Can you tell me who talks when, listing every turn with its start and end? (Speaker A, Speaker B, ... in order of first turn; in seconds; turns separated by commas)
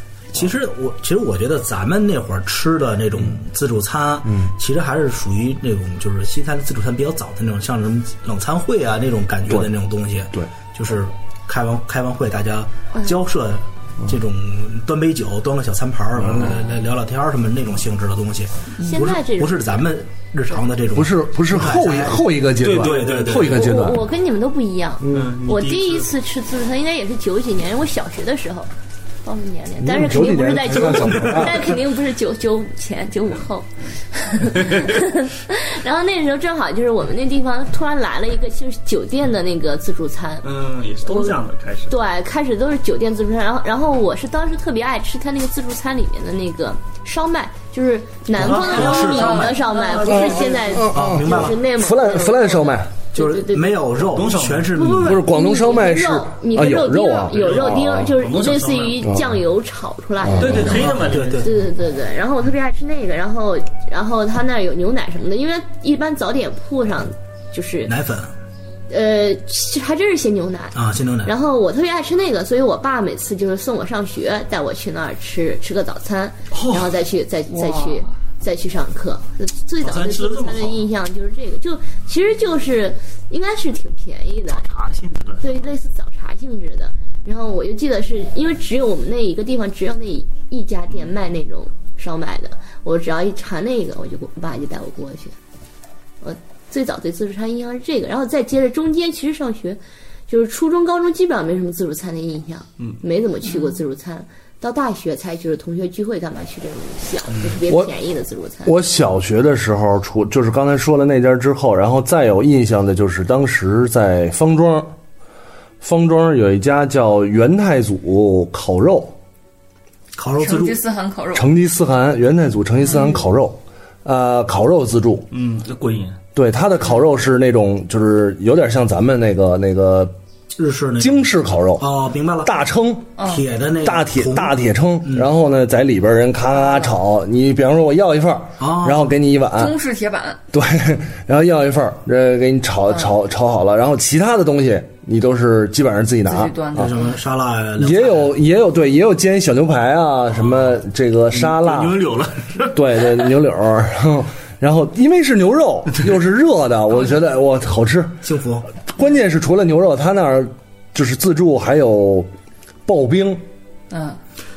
Speaker A: 0.3-23.6, Speaker B: 4.2-4.5, Speaker B: 16.1-16.5, Speaker C: 18.8-19.6, Speaker B: 20.9-24.1, Speaker D: 22.6-23.5, Speaker C: 23.5-28.7, Speaker B: 25.0-25.3, Speaker D: 25.1-26.1, Speaker C: 29.2-40.5, Speaker B: 29.8-31.8, Speaker D: 40.4-41.9, Speaker C: 41.0-54.1, Speaker A: 48.3-49.5, Speaker D: 48.4-50.8, Speaker E: 49.2-49.5, Speaker B: 50.0-52.9, Speaker A: 50.9-51.6, Speaker A: 53.1-55.2, Speaker D: 54.1-54.9, Speaker C: 54.7-67.9, Speaker B: 55.0-58.1, Speaker D: 57.3-59.0, Speaker B: 59.0-59.4, Speaker B: 60.2-60.9, Speaker D: 60.4-61.5, Speaker A: 60.4-61.6, Speaker A: 67.8-68.3, Speaker C: 68.9-84.6, Speaker A: 70.7-71.3, Speaker D: 76.5-76.9, Speaker E: 77.5-78.1, Speaker D: 79.8-80.9, Speaker D: 84.5-85.7, Speaker C: 85.4-95.3, Speaker C: 96.2-108.7, Speaker E: 103.4-103.8, Speaker B: 107.7-107.9, Speaker B: 108.6-114.9, Speaker B: 115.8-119.2, Speaker A: 120.2-120.8, Speaker E: 120.4-121.5, Speaker B: 121.3-125.3, Speaker E: 122.9-123.2, Speaker D: 125.3-126.2, Speaker B: 126.3-130.1, Speaker A: 130.6-131.2, Speaker B: 131.0-133.2, Speaker A: 131.8-132.5, Speaker E: 133.2-133.4, Speaker A: 133.2-135.3, Speaker B: 133.8-139.8, Speaker E: 136.5-136.9, Speaker A: 138.6-139.1, Speaker E: 139.6-140.4, Speaker B: 140.5-146.9, Speaker E: 146.2-147.2, Speaker A: 146.8-148.3, Speaker B: 147.8-152.0, Speaker D: 151.3-153.3, Speaker B: 152.7-158.2, Speaker A: 158.2-158.7, Speaker B: 158.9-162.3, Speaker B: 162.8-163.4, Speaker E: 163.9-164.2